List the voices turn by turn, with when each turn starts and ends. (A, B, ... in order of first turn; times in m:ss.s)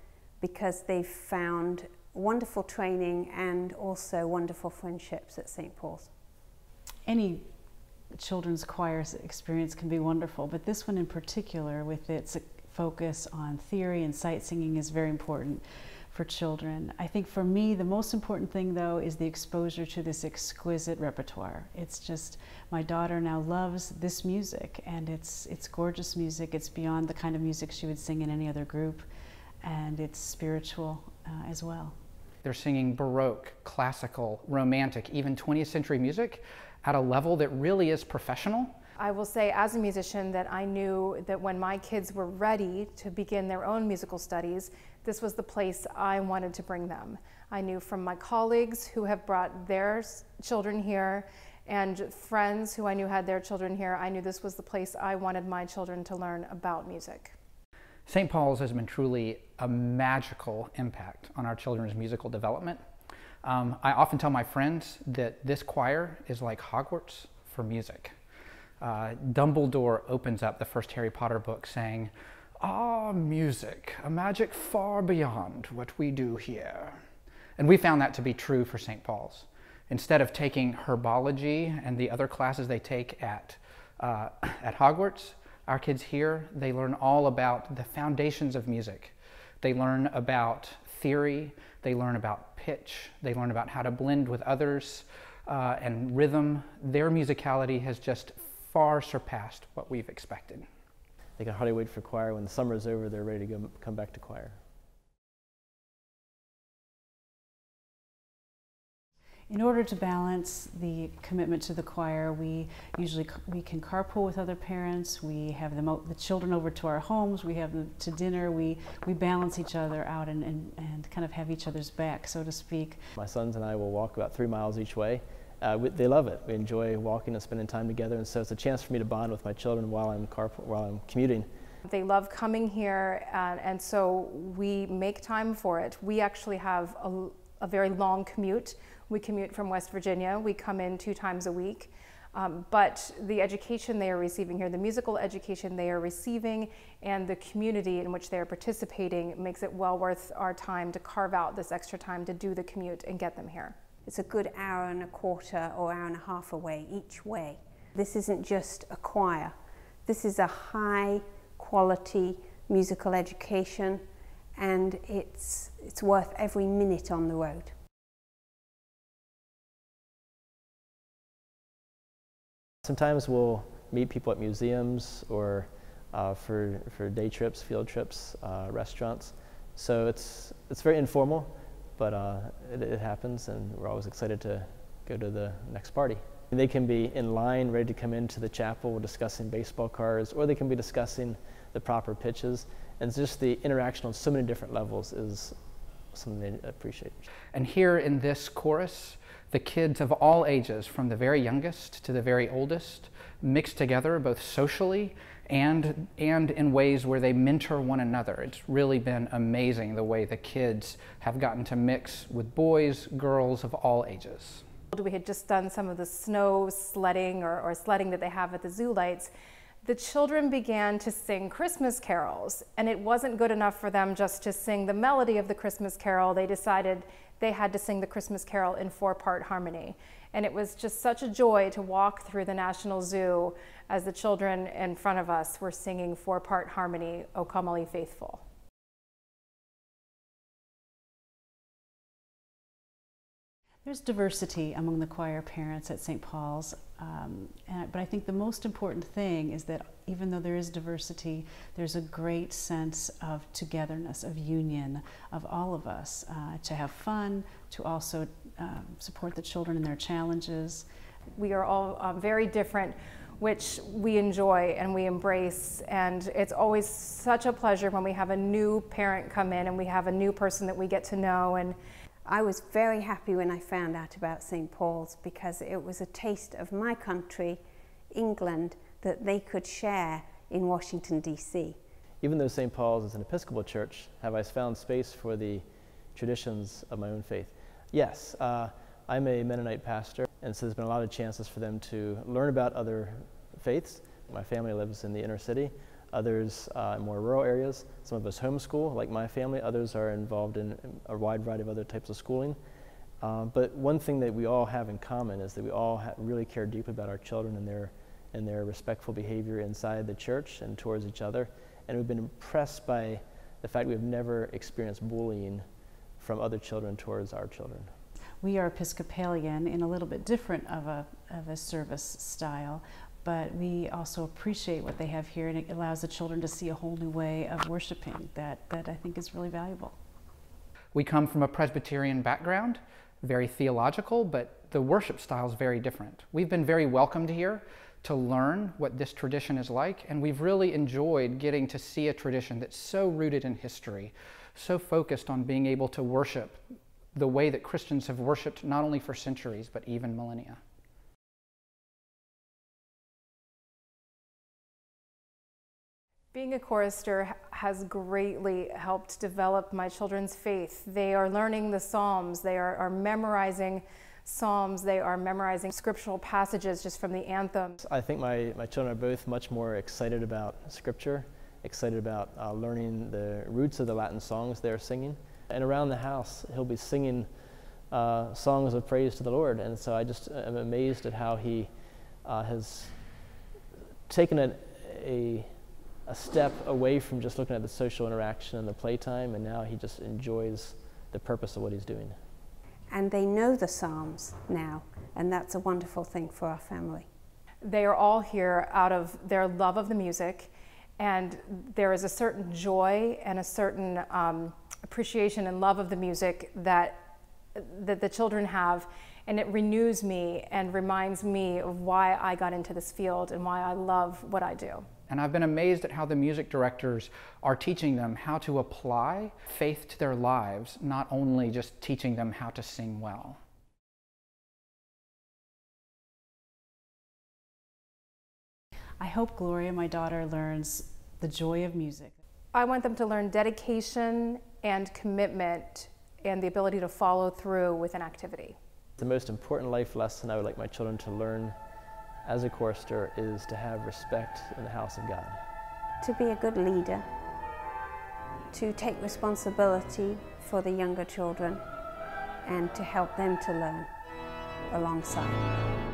0:00.4-0:06.1 A
0:07.0-0:07.4 B
0:08.1-0:29.0 B
0:29.6-0:31.9 B
0:32.4-0:38.7 C
0:39.0-0:57.4 D
0:58.1-1:02.8 C
1:03.4-1:08.1 C
1:08.8-1:17.0 C
1:17.6-1:40.7 C
1:41.4-1:44.6 E
1:49.5-2:03.0 B
2:03.2-2:11.5 E
2:11.8-2:33.7 D
2:34.0-2:47.7 A
2:52.8-3:15.6 E
3:16.1-3:17.3 E
3:17.5-3:34.6 C
3:34.9-3:39.3 D
3:39.8-3:58.4 D
4:03.8-4:20.8 B
4:21.4-4:31.8 D
4:32.2-4:41.8 A
4:42.2-5:02.6 E
5:03.2-5:15.6 E
5:16.2-5:17.9 E
5:18.4-5:30.0 B
5:30.9-5:46.6 C
5:47.1-5:50.6 C
5:56.3-6:07.8 D
6:07.8-6:17.3 E
6:17.9-6:21.7 E
6:22.2-6:23.0 E
6:24.1-6:25.5 E
6:26.0-6:32.2 E
6:32.9-6:37.1 A
6:37.6-6:47.0 D
6:47.5-6:54.8 D
6:55.1-7:03.4 C
7:09.0-7:12.1 B
7:12.5-7:18.6 D
7:19.0-7:21.5 E
7:22.2-7:25.4 E
7:26.0-7:27.0 A
7:28.5-7:31.6 A
7:32.4-7:33.9 A
7:34.7-7:35.4 A